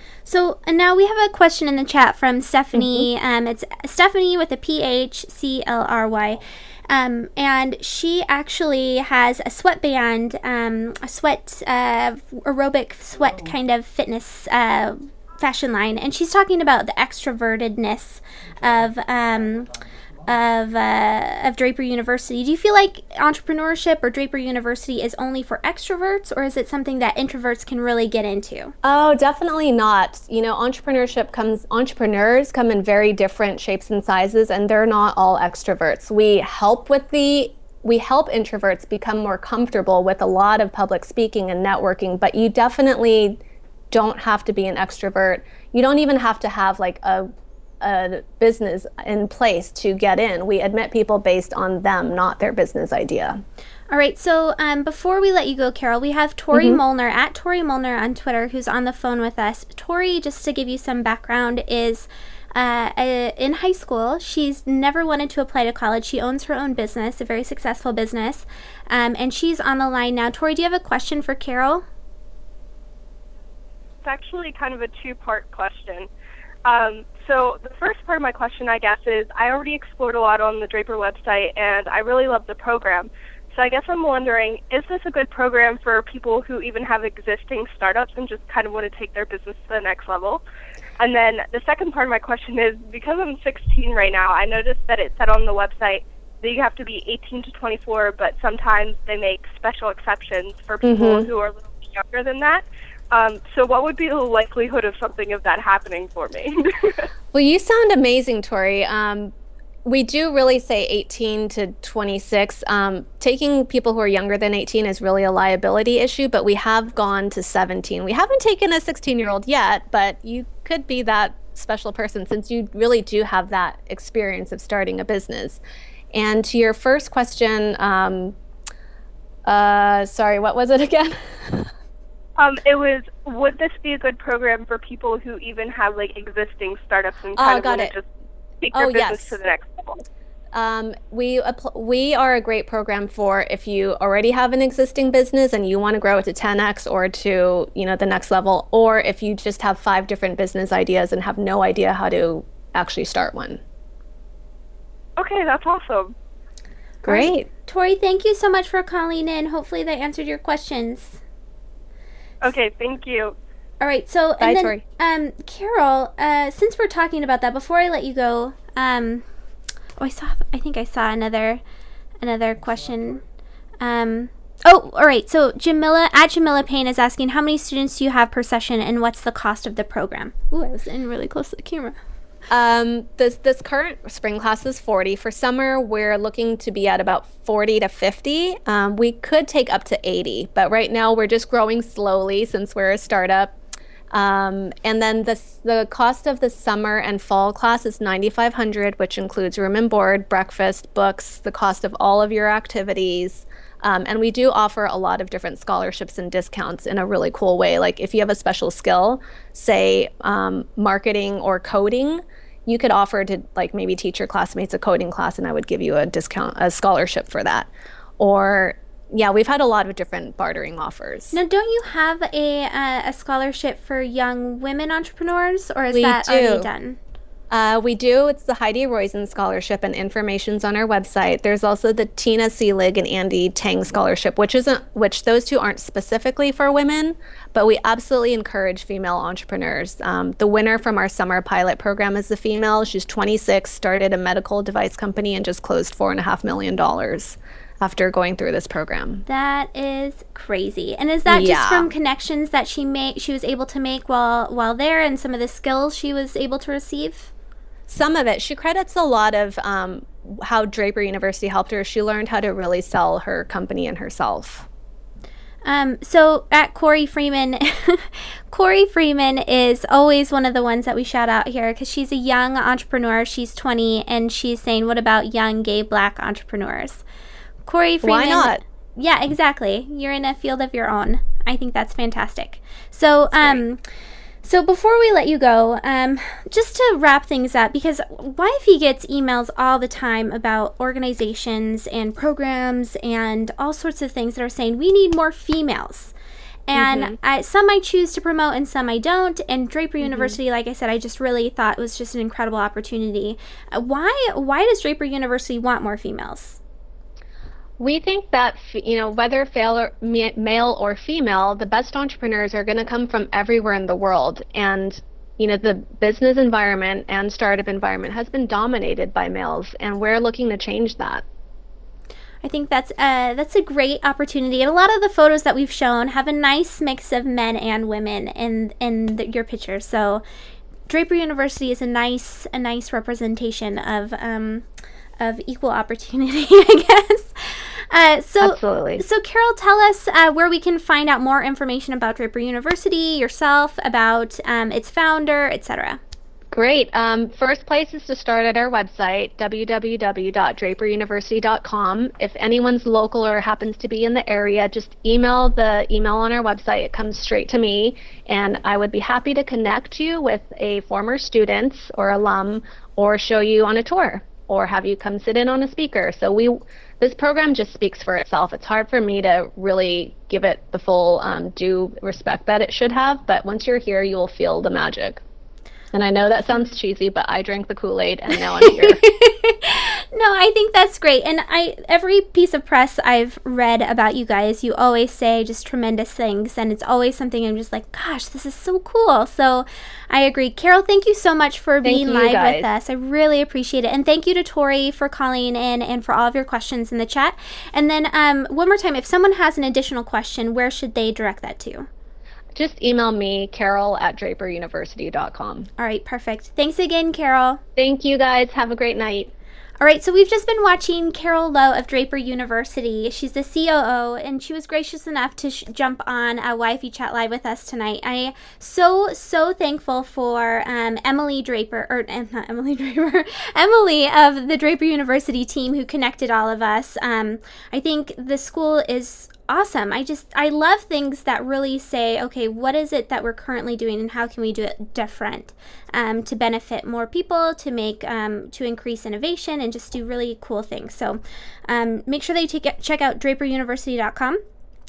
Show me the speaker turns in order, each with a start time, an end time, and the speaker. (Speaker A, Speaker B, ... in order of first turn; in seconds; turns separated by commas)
Speaker A: 0.2-19.7, Speaker B: 2.7-3.0, Speaker A: 20.2-28.7, Speaker B: 28.8-43.4, Speaker B: 43.9-47.3, Speaker B: 47.8-53.4, Speaker A: 53.9-71.8, Speaker B: 56.5-56.8, Speaker C: 74.0-76.1, Speaker C: 76.7-90.4, Speaker C: 91.0-107.0, Speaker B: 100.8-101.3, Speaker B: 107.3-109.3, Speaker B: 109.8-125.6, Speaker B: 126.1-128.3, Speaker B: 129.4-131.7, Speaker C: 132.4-138.0, Speaker B: 137.3-137.9, Speaker C: 138.6-140.0, Speaker B: 138.7-139.4, Speaker B: 140.5-153.6, Speaker C: 155.2-156.1, Speaker B: 157.0-157.5, Speaker A: 157.0-161.2, Speaker C: 162.4-163.3, Speaker A: 163.8-169.2, Speaker B: 164.4-164.8, Speaker A: 170.0-171.6, Speaker A: 172.2-173.2, Speaker A: 173.8-182.0, Speaker B: 182.5-193.6, Speaker B: 194.1-221.4, Speaker A: 221.3-227.0, Speaker B: 225.9-226.7, Speaker B: 227.5-249.2, Speaker A: 249.3-257.3, Speaker B: 251.2-251.9, Speaker B: 257.9-264.7, Speaker A: 265.6-277.0, Speaker A: 277.6-283.8, Speaker B: 278.0-278.6, Speaker B: 283.3-283.6, Speaker A: 284.4-296.1, Speaker A: 296.7-306.6, Speaker B: 296.7-297.1, Speaker B: 300.0-300.4, Speaker B: 307.8-321.2, Speaker A: 322.4-330.2, Speaker A: 330.9-334.6, Speaker A: 335.2-346.0, Speaker B: 338.4-339.0, Speaker B: 346.5-375.2, Speaker B: 375.9-379.0, Speaker A: 378.6-401.9, Speaker B: 391.8-392.7, Speaker B: 402.5-405.7, Speaker A: 405.8-407.6, Speaker B: 407.8-409.3, Speaker A: 409.8-444.4